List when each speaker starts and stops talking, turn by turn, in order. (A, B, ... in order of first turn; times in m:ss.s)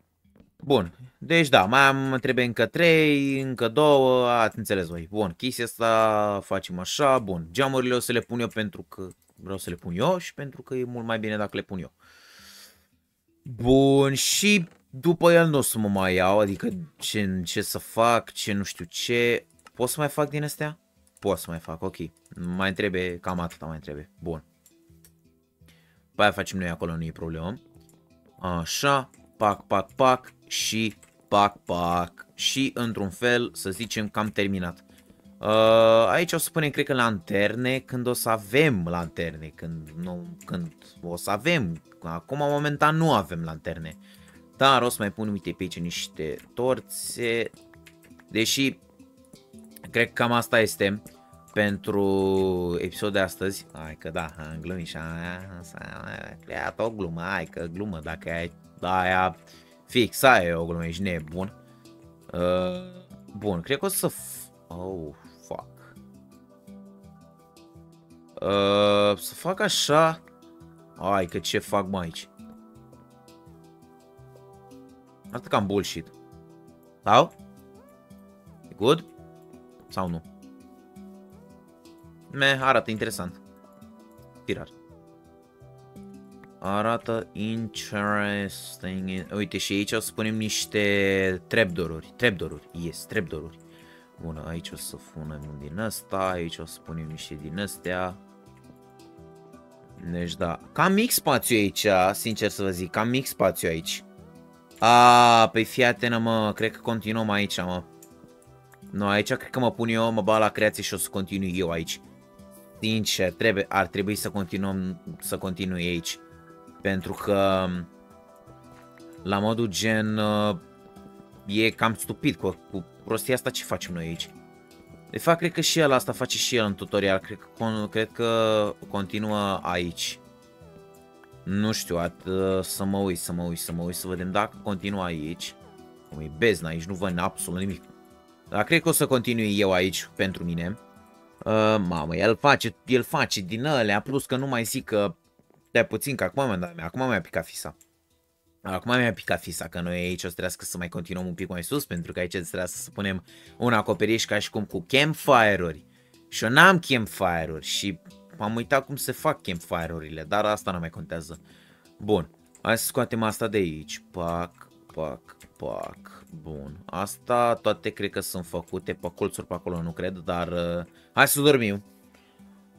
0:00.6-0:11.9 A
0:13.5-0:24.4 A
0:26.2-0:27.6 A
0:28.4-0:34.8 A
0:35.4-0:44.0 A
0:44.6-0:47.5 A
0:48.3-0:48.8 A
0:49.9-0:51.0 A
0:51.5-1:01.6 A
1:02.3-1:06.0 A
1:08.4-1:10.2 A
1:11.0-1:12.3 A
1:15.3-1:16.1 A
1:17.0-1:17.4 A
1:18.7-1:19.1 A
1:19.9-1:20.2 A
1:22.3-1:23.4 A
1:24.5-1:24.7 A
1:26.6-1:33.6 A
1:34.2-1:38.2 A
1:40.0-1:44.1 A
1:44.8-1:47.9 A
1:48.9-1:52.0 A
1:52.8-1:56.2 A
1:56.8-1:57.9 A
1:59.2-2:00.6 A
2:01.5-2:04.3 A
2:05.1-2:10.2 A
2:11.4-2:15.6 A
2:16.1-2:17.9 A
2:18.5-2:20.8 A
2:21.4-2:25.2 A
2:25.7-2:27.8 A
2:28.6-2:41.4 A
2:42.0-2:51.8 A